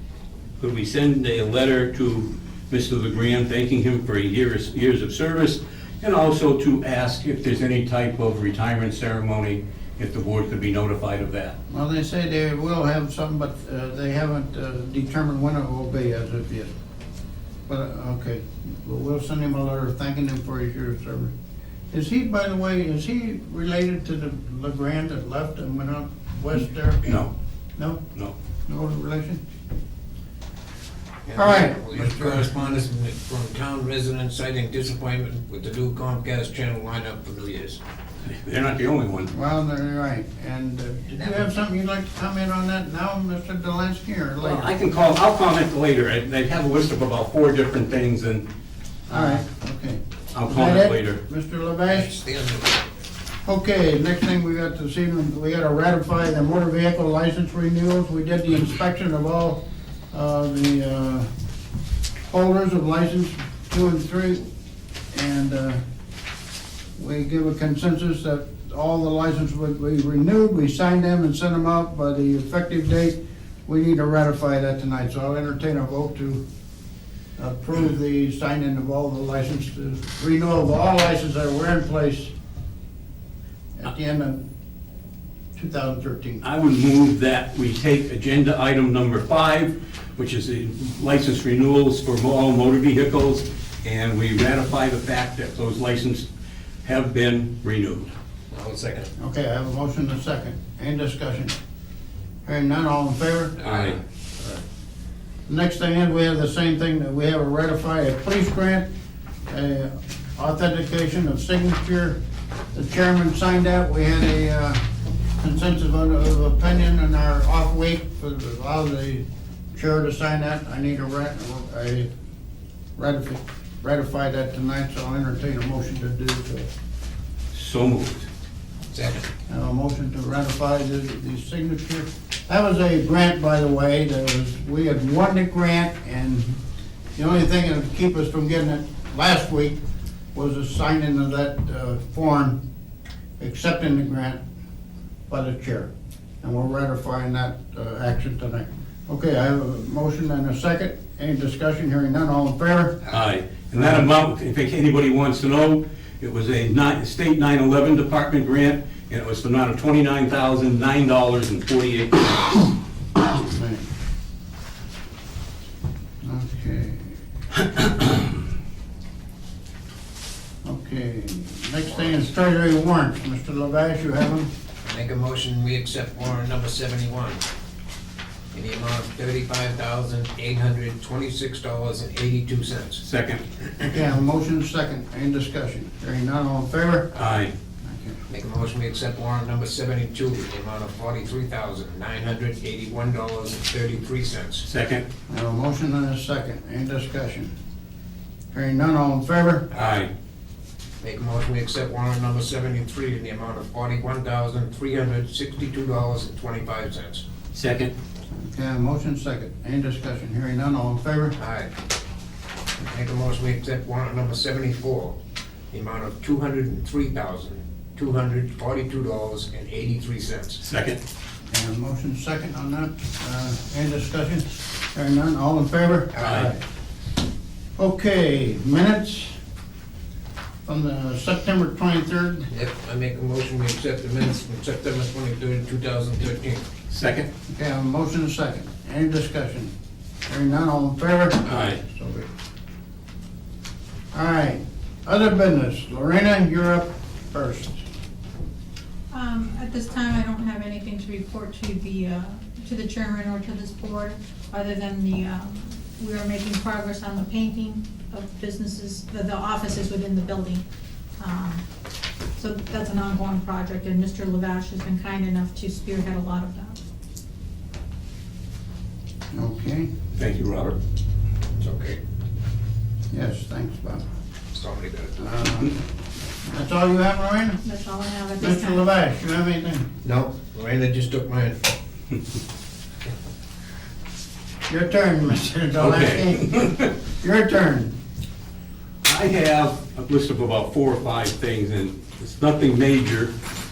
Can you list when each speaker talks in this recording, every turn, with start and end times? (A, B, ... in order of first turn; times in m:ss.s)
0:00.6-0:11.6 A
0:11.7-0:16.7 B
0:17.7-0:21.3 B
0:21.9-0:27.1 B
0:27.0-0:27.3 A
0:27.8-0:28.0 B
0:28.7-0:29.4 B
0:31.3-0:37.8 C
0:31.4-0:32.8 B
0:38.2-0:39.3 A
0:39.3-0:44.7 B
0:44.4-0:48.5 A
0:49.1-0:52.1 B
0:49.1-0:49.4 A
0:50.3-0:51.2 A
0:51.9-0:52.8 C
0:53.4-1:01.3 B
1:02.3-1:04.5 B
1:05.1-1:05.8 B
1:07.0-1:16.4 B
1:17.4-1:22.3 B
1:23.8-1:24.4 B
1:25.6-1:26.4 B
1:26.4-1:36.3 A
1:36.8-1:38.1 A
1:38.5-1:39.1 C
1:39.2-1:41.5 B
1:42.4-1:43.6 B
1:43.6-1:44.6 C
1:43.6-1:44.0 A
1:45.5-1:48.9 B
1:49.5-1:52.2 B
1:52.7-1:54.8 B
1:55.4-2:02.1 B
2:03.0-2:06.7 B
2:07.5-2:08.3 A
2:08.9-2:09.2 C
2:09.5-2:16.6 B
2:17.2-2:19.8 B
2:20.3-2:22.6 B
2:23.4-2:24.4 B
2:25.3-2:25.9 B
2:26.4-2:33.0 B
2:33.1-2:42.7 A
2:33.8-2:34.0 B
2:43.5-2:43.9 B
2:46.2-2:47.2 B
2:50.6-2:54.5 B
2:51.9-2:52.2 C
2:54.8-2:57.4 C
2:58.5-3:03.0 C
3:03.0-3:03.4 A
3:03.9-3:07.2 B
3:07.2-3:07.5 A
3:07.8-3:08.2 B
3:08.3-3:14.7 C
3:14.6-3:15.0 A
3:15.3-3:17.5 B
3:18.5-3:19.7 B
3:19.7-3:20.1 C
3:19.7-3:20.1 A
3:21.0-3:27.2 C
3:27.5-3:27.9 A
3:28.3-3:31.4 B
3:31.4-3:31.7 C
3:32.8-3:35.2 C
3:35.7-3:40.6 C
3:40.6-3:41.0 A
3:41.5-3:46.6 B
3:46.1-3:46.5 C
3:46.2-3:46.5 A
3:47.8-3:49.4 B
3:50.7-3:52.5 B
3:52.5-3:56.6 C
3:56.9-3:57.3 A
3:57.5-3:59.7 B
4:00.3-4:02.3 B
4:01.5-4:01.8 A
4:04.1-4:07.8 B
4:09.1-4:20.6 D
4:21.2-4:21.6 D
4:22.4-4:26.8 D
4:29.3-4:29.9 B
4:30.2-4:30.8 A
4:31.6-4:32.0 C
4:33.1-4:34.0 B
4:34.5-4:35.2 C
4:35.2-4:35.8 B
4:36.4-4:37.6 B
4:37.6-4:38.9 D
4:38.4-4:39.9 B
4:40.0-4:41.6 C
4:44.7-4:47.9 B
4:45.8-4:46.9 A
4:49.0-4:53.3 A